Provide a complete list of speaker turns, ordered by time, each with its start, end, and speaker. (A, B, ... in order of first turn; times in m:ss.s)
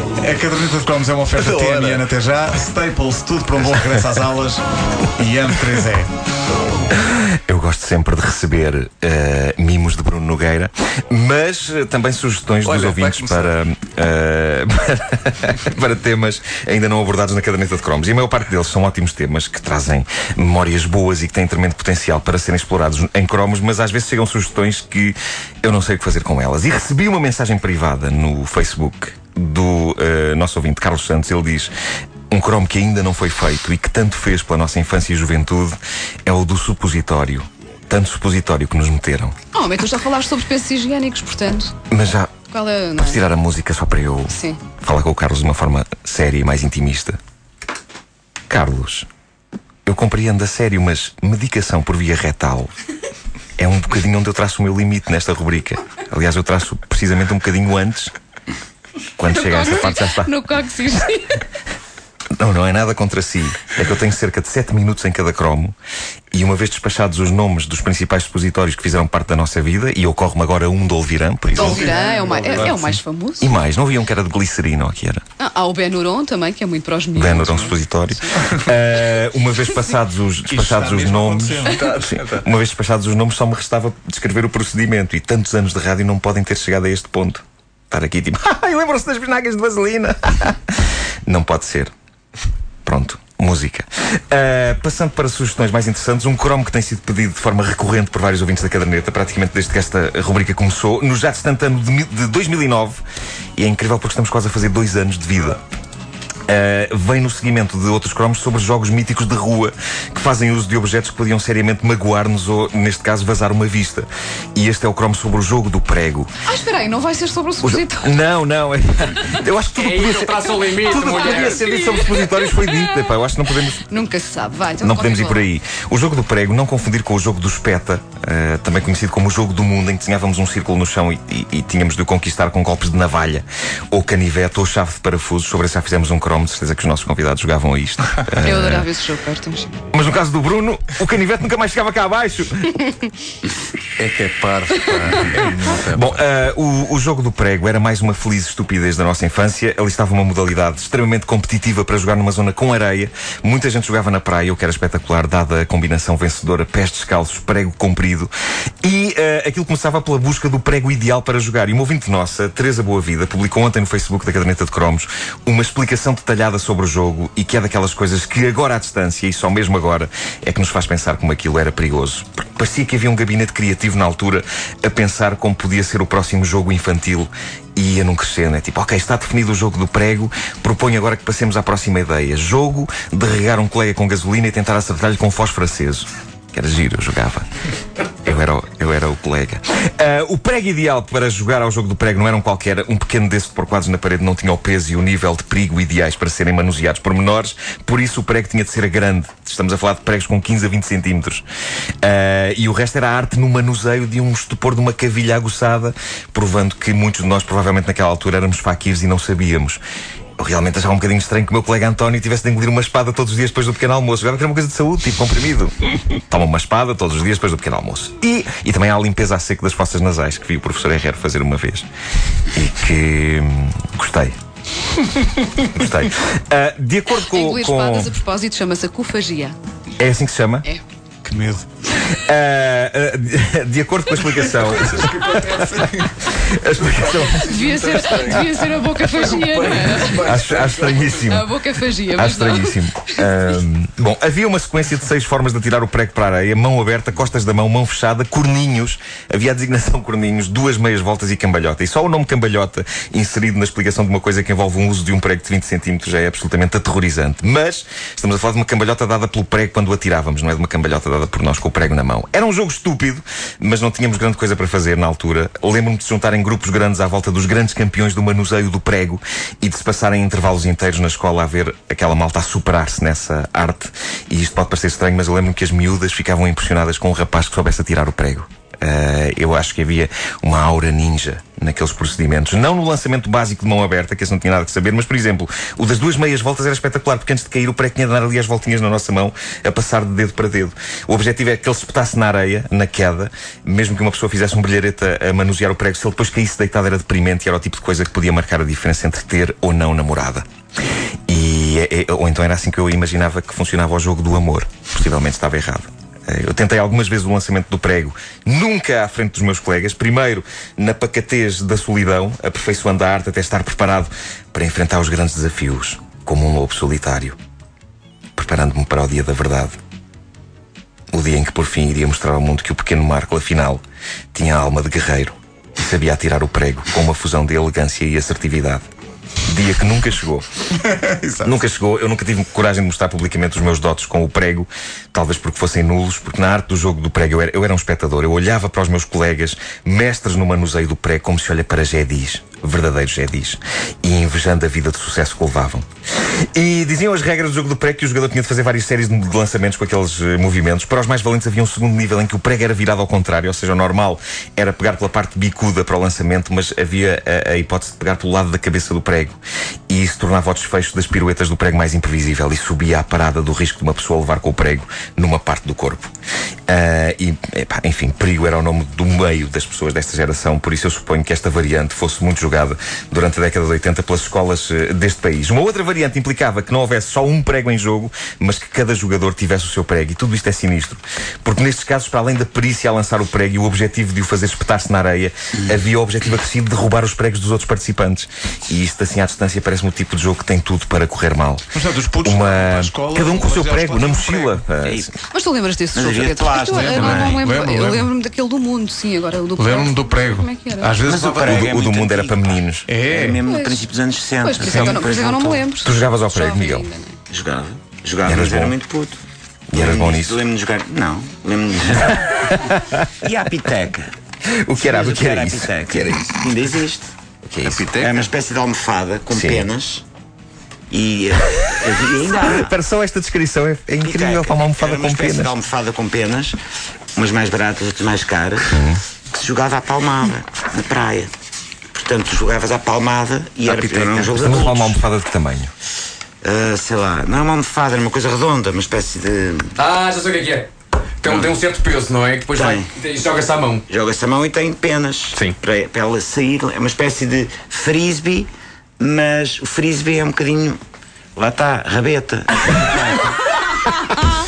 0:00.2-0:04.6 A
0:01.3-0:02.1 B
0:05.2-0:06.1 A
0:06.9-0:31.7 C
0:12.6-0:13.6 B
0:32.3-0:39.3 C
0:39.5-0:41.7 D
0:41.9-0:42.3 C
0:42.5-0:43.2 D
0:43.0-0:47.2 C
0:44.3-0:44.6 D
0:48.5-0:49.1 C
0:49.8-0:52.7 C
0:53.6-0:58.1 C
0:59.2-1:00.3 C
0:59.2-1:01.4 D
1:02.4-1:05.8 C
1:06.3-1:11.9 C
1:11.5-1:13.5 D
1:11.6-1:13.0 A
1:11.9-1:12.6 B
1:13.4-1:15.2 C
1:15.4-1:18.4 D
1:17.1-1:31.9 C
1:20.4-1:21.8 A
1:21.7-1:22.5 B
1:32.8-1:43.0 C
1:43.6-1:45.6 C
1:46.5-1:56.3 C
1:56.4-1:58.2 D
1:57.6-2:03.8 C
1:59.8-2:01.6 E
2:01.4-2:02.6 D
2:03.9-2:05.5 D
2:04.8-2:18.9 C
2:18.4-2:19.7 D
2:19.9-2:22.9 C
2:24.0-2:26.2 B
2:25.3-2:38.3 C
2:38.8-3:07.5 C
3:08.2-3:21.4 C
3:22.0-3:29.8 C
3:30.4-3:41.9 C
3:42.5-3:44.3 C
3:45.5-3:48.1 C
3:47.2-3:49.6 D
3:50.0-3:50.6 C
3:51.2-3:51.7 A
3:51.9-3:57.4 C
3:54.2-4:01.4 B
3:57.1-4:00.2 D
4:00.2-4:01.5 C
4:01.2-4:03.4 D
4:02.1-5:00.4 C
5:01.3-5:17.4 C
5:18.4-5:19.8 C
5:21.1-5:23.8 C
5:24.3-5:28.8 C
5:29.4-5:30.4 C
5:30.9-5:31.5 A
5:31.4-5:45.8 C
5:46.5-6:06.1 C
6:06.7-6:35.1 C
6:31.7-6:34.6 A
6:34.8-6:35.1 F
6:35.3-6:41.0 D
6:35.9-6:37.4 F
6:36.7-6:38.1 A
6:39.6-6:41.5 A
6:41.0-6:45.6 F
6:41.4-6:42.9 C
6:42.9-6:43.4 A
6:43.3-6:43.8 D
6:44.4-6:47.2 D
6:44.6-6:45.0 C
6:45.8-6:46.9 C
6:47.3-6:49.2 F
6:48.2-6:48.7 C
6:49.7-6:50.4 C
6:49.7-6:52.5 F
6:52.4-6:53.0 C
6:53.2-6:54.1 F
6:54.6-6:56.3 C
6:54.8-6:57.1 F
6:57.4-6:57.9 C
6:57.6-6:58.2 B
6:58.0-7:00.0 F
6:59.3-6:59.7 C
7:00.9-7:02.8 F
7:02.4-7:05.5 C
7:04.0-7:06.6 F
7:07.1-7:08.8 F
7:08.7-7:09.0 C
7:09.3-7:11.3 F
7:11.9-7:15.0 F
7:14.0-7:15.7 C
7:16.4-7:19.8 F
7:19.8-7:20.7 E
7:21.2-7:23.8 E
7:22.5-7:22.9 F
7:23.9-7:30.8 F
7:31.4-7:33.2 F